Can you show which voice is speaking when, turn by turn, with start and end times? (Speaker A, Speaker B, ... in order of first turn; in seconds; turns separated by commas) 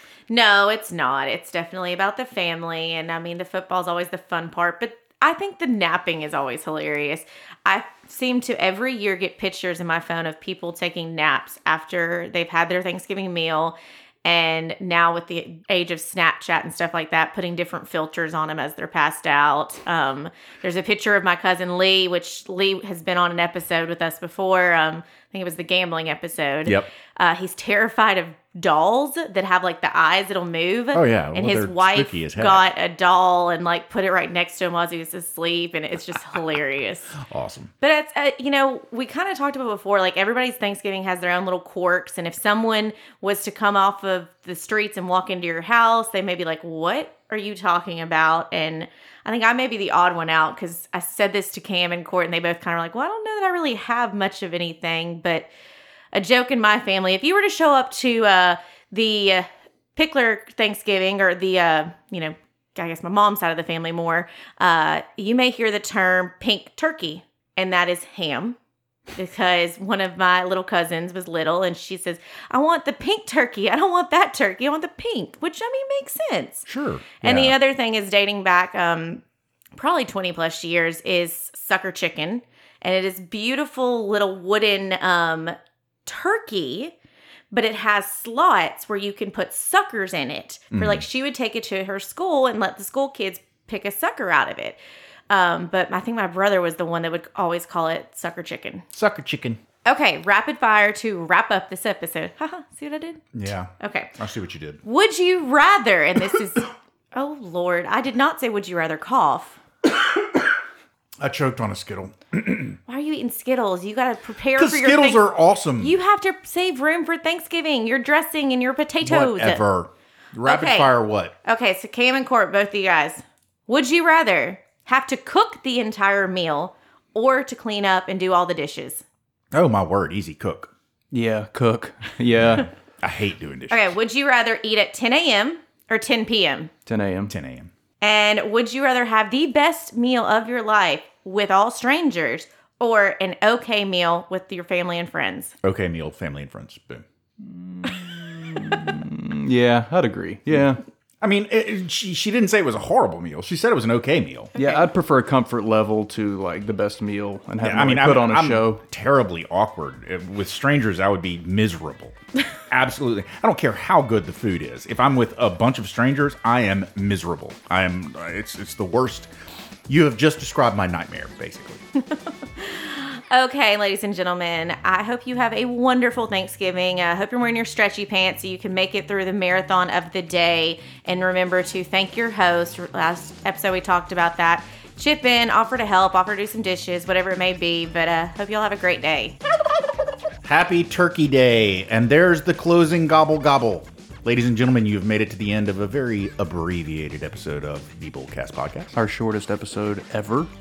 Speaker A: 0.3-37.1, Speaker B: 30.9-32.7, Speaker B: 37.2-37.7, Speaker A: 37.8-55.5, Speaker A: 56.1-68.6, Speaker A: 69.2-76.7, Speaker B: 76.7-77.6, Speaker A: 77.2-79.2, Speaker A: 79.8-85.5, Speaker A: 86.0-86.9, Speaker A: 87.5-94.8, Speaker B: 90.7-91.0, Speaker A: 95.3-98.8, Speaker B: 98.9-99.6, Speaker A: 99.9-103.2, Speaker B: 103.3-104.8, Speaker A: 103.8-104.2, Speaker A: 104.8-109.6, Speaker B: 111.2-112.8, Speaker A: 112.9-115.2, Speaker B: 114.5-116.0, Speaker A: 115.8-119.6, Speaker B: 119.0-121.3, Speaker A: 120.5-129.0, Speaker B: 129.5-130.7, Speaker C: 131.1-132.7, Speaker B: 133.0-133.9, Speaker A: 133.7-136.7, Speaker C: 136.9-137.3, Speaker B: 137.3-137.7, Speaker A: 138.0-145.5, Speaker B: 145.6-147.1, Speaker C: 147.4-150.8, Speaker B: 151.2-154.5, Speaker C: 154.6-158.8, Speaker A: 154.6-154.8, Speaker B: 157.6-162.2, Speaker B: 162.7-169.3, Speaker B: 169.9-171.8, Speaker A: 172.6-189.4, Speaker B: 190.4-198.9, Speaker C: 198.9-200.5